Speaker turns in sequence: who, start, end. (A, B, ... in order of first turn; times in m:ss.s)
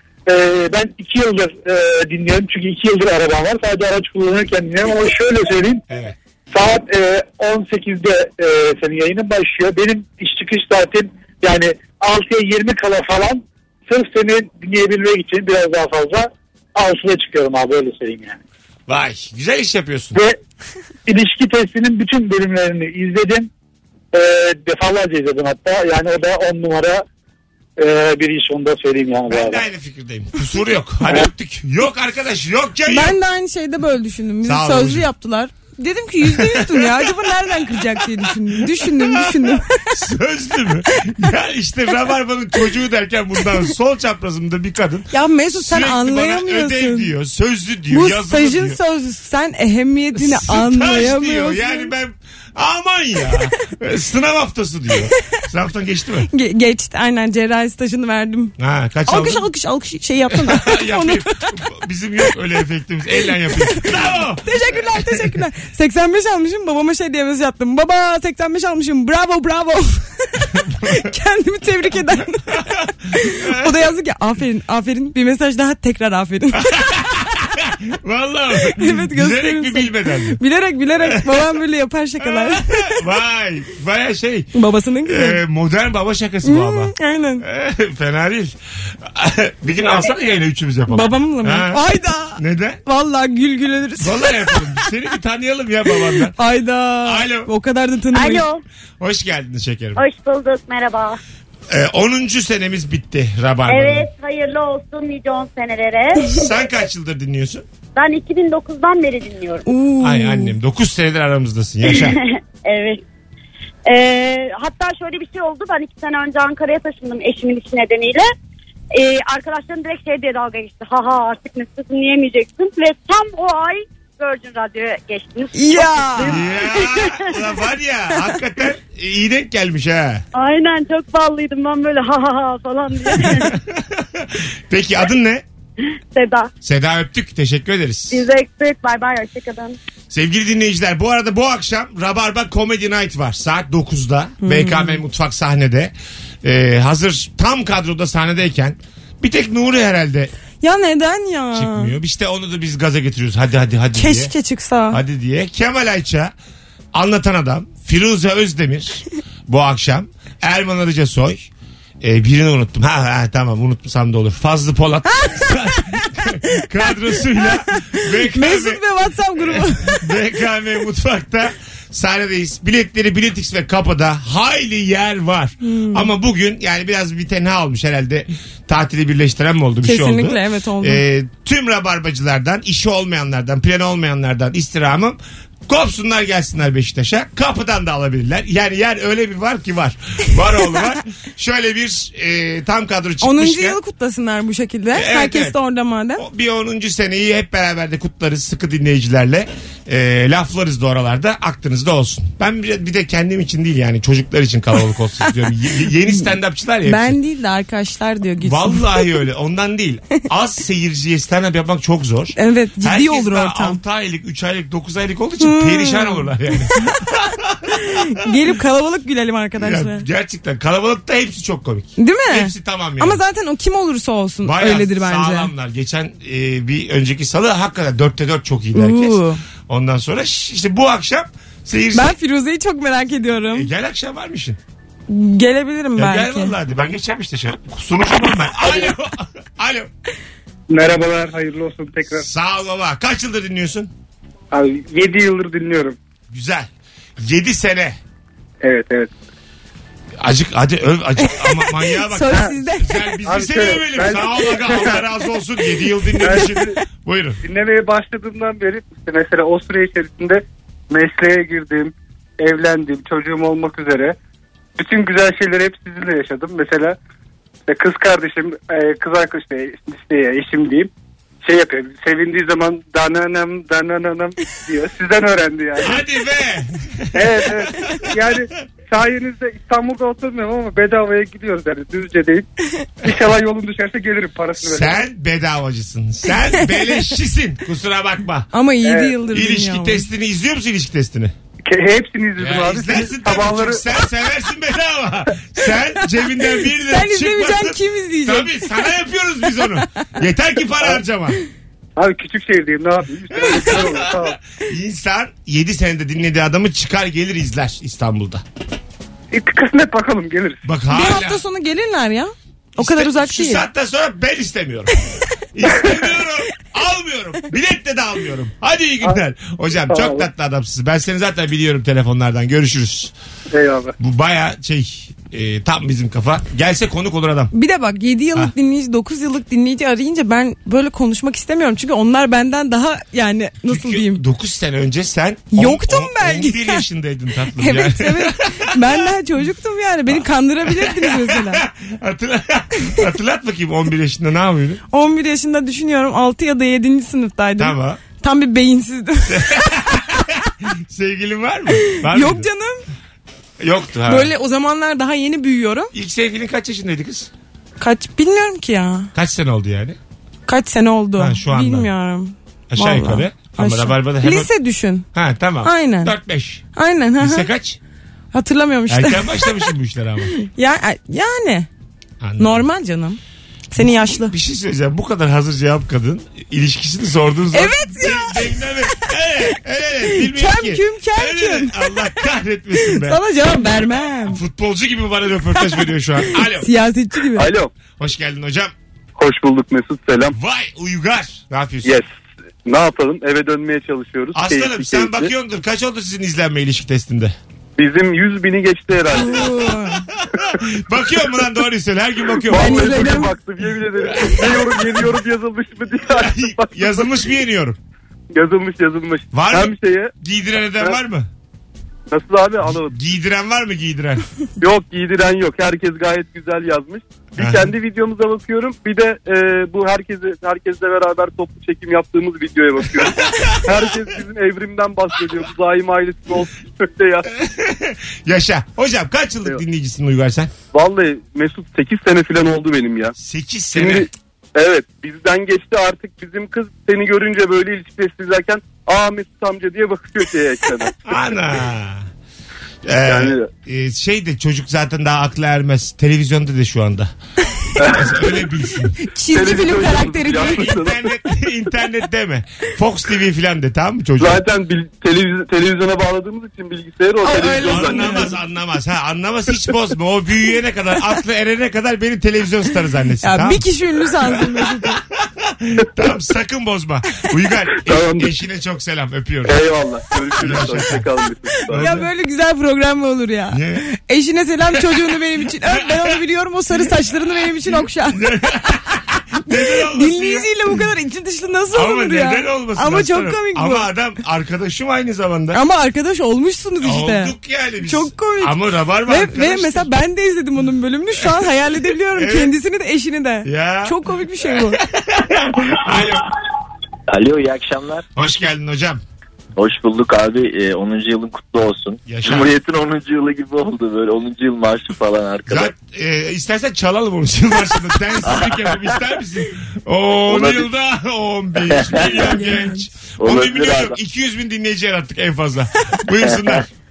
0:00.3-0:05.8 A
0:05.9-0:06.2 B
0:06.5-0:18.4 A
0:18.9-0:20.2 B
0:21.1-0:23.5 A
0:24.1-0:27.0 A
0:27.8-0:29.6 A
0:29.3-0:33.2 B
0:32.9-0:40.0 C
0:34.4-0:35.1 B
0:36.2-0:48.8 B
0:45.1-0:47.1 C
0:47.9-0:51.9 C
0:50.2-0:56.3 B
0:56.3-0:58.5 C
0:58.6-0:59.4 B
0:59.1-1:01.6 C
1:00.3-1:05.3 B
1:04.4-1:16.7 C
1:10.6-1:11.1 B
1:13.2-1:13.8 B
1:16.5-1:20.4 B
1:18.7-1:23.0 C
1:21.0-1:21.5 B
1:22.2-1:24.5 B
1:24.6-1:25.4 C
1:25.0-1:31.8 B
1:26.4-1:27.4 C
1:30.9-1:34.8 C
1:32.4-1:32.8 B
1:34.0-1:36.4 B
1:36.4-1:38.5 C
1:37.0-1:37.5 B
1:38.1-1:38.6 D
1:39.0-1:40.0 B
1:40.0-1:41.2 D
1:41.7-1:44.1 B
1:43.7-1:46.5 D
1:46.2-1:47.6 B
1:48.0-1:49.7 D
1:49.7-1:50.6 C
1:50.0-1:52.2 B
1:51.9-1:53.0 D
1:53.9-1:58.3 D
1:59.0-2:07.3 D
2:05.5-2:06.4 C
2:06.3-2:10.2 B
2:10.4-2:13.5 D
2:13.2-2:15.4 B
2:16.1-2:16.5 D
2:16.6-2:18.2 B
2:18.1-2:19.8 D
2:20.1-2:30.3 B
2:24.4-2:25.0 C
2:30.6-2:31.9 C
2:31.5-2:34.3 B
2:34.0-2:35.0 C
2:34.9-2:36.3 B
2:36.9-2:48.8 B
2:45.2-2:46.0 C
2:48.3-2:50.0 C
2:49.4-3:13.8 B
2:55.6-2:56.1 C
2:59.8-3:01.0 C
3:13.2-3:16.2 C
3:14.9-3:15.6 B
3:16.2-3:27.2 B
3:26.8-3:29.2 C
3:28.4-3:38.1 B
3:32.4-3:33.8 C
3:35.4-3:37.0 C
3:37.7-3:40.0 C
3:39.6-3:43.2 B
3:42.0-3:45.5 C
3:44.4-3:52.1 B
3:48.8-3:49.4 C
3:51.9-3:53.7 C
3:53.5-3:54.6 B
3:55.1-3:56.6 C
3:56.0-3:59.9 B
4:00.7-4:02.3 E
4:02.2-4:03.9 B
4:04.5-4:06.0 E
4:06.3-4:08.0 B
4:08.6-4:09.1 E
4:10.2-4:17.4 B
4:11.2-4:13.2 C
4:13.2-4:15.0 E
4:16.2-4:16.7 E
4:17.4-4:24.2 E
4:24.8-4:27.0 E
4:27.7-4:30.9 E
4:31.4-4:36.0 E
4:35.8-4:38.2 B
4:37.1-4:42.5 E
4:43.0-4:45.0 E
4:44.6-4:48.5 B
4:48.5-4:50.1 C
4:48.8-4:49.2 E
4:49.3-4:51.3 B
4:51.6-4:53.8 E
4:52.4-5:01.4 B
4:56.6-4:58.7 C
5:02.0-5:04.4 E
5:03.3-5:08.4 B
5:09.3-5:10.6 E
5:10.6-5:11.4 B
5:10.9-5:13.6 C
5:12.8-5:14.9 B
5:15.5-5:23.1 B
5:19.9-5:20.3 E
5:23.5-5:23.9 E
5:24.0-5:27.5 B
5:27.5-5:34.2 C
5:33.7-5:39.1 B
5:35.5-5:36.8 C
5:37.6-5:41.6 C
5:40.1-5:44.8 B
5:44.9-5:49.7 C
5:47.6-5:48.0 B
5:49.3-5:52.5 B
5:51.9-5:52.8 C
5:53.6-5:54.3 B
5:54.1-5:55.9 C
5:55.9-5:57.3 B
5:57.8-5:59.1 C
5:59.1-6:00.0 B
6:00.5-6:05.1 C
6:01.2-6:01.9 B
6:02.7-6:04.5 B
6:05.1-6:06.6 B
6:05.6-6:06.1 C
6:06.8-6:07.5 C
6:07.2-6:07.8 B
6:08.3-6:09.7 C
6:08.9-6:10.3 B
6:10.4-6:11.7 C
6:12.2-6:12.7 B
6:12.4-6:13.2 C
6:13.7-6:14.4 C
6:13.8-6:23.2 B
6:17.5-6:18.7 C
6:20.1-6:21.9 C
6:22.8-6:24.4 C
6:24.2-6:26.7 B
6:26.4-6:27.5 C
6:27.4-6:27.7 F
6:28.0-6:28.7 B
6:29.2-6:30.4 F
6:30.3-6:32.0 B
6:32.7-6:35.3 F
6:34.4-6:37.4 B
6:37.8-6:39.4 F
6:39.1-6:40.1 C
6:40.2-6:43.2 B
6:42.5-6:47.0 F
6:42.5-6:43.3 C
6:44.0-6:45.0 B
6:46.1-6:47.8 B
6:48.3-6:50.1 F
6:49.3-6:51.3 B
6:52.1-6:53.0 F
6:52.8-6:54.3 B
6:54.6-7:07.3 F
6:57.4-6:57.7 B
7:03.0-7:03.8 B
7:07.3-7:10.5 B
7:10.7-7:13.1 F
7:13.2-7:14.1 B
7:13.7-7:21.0 F
7:21.0-7:22.1 B
7:22.8-7:27.1 B
7:23.0-7:23.5 F
7:27.8-7:28.2 F
7:27.8-7:29.0 B
7:29.0-7:30.8 C
7:29.3-7:31.0 F
7:30.1-7:34.4 B
7:34.2-7:38.3 F
7:37.2-7:38.4 C
7:37.6-7:43.7 B
7:43.2-7:45.0 C
7:45.1-7:49.6 B
7:47.8-7:48.3 F
7:49.4-7:51.9 F
7:50.4-7:51.1 B
7:51.7-7:52.1 B
7:51.7-7:58.2 C
7:53.5-7:53.8 B
7:54.7-7:55.0 B
7:55.7-7:56.2 B
7:57.6-8:00.5 B
7:59.9-8:03.9 C
8:01.7-8:05.6 B
8:05.5-8:07.3 C
8:06.8-8:09.9 B
8:07.8-8:08.6 C
8:09.1-8:14.8 C
8:12.1-8:12.5 B
8:13.4-8:16.3 B
8:17.1-8:18.1 G
8:18.2-8:19.0 B
8:19.6-8:25.7 G
8:22.1-8:22.5 B
8:25.5-8:36.7 B
8:28.2-8:28.8 G
8:30.3-8:30.7 G
8:31.7-8:32.1 G
8:32.0-8:32.8 C
8:33.2-8:34.0 G
8:36.2-8:36.6 G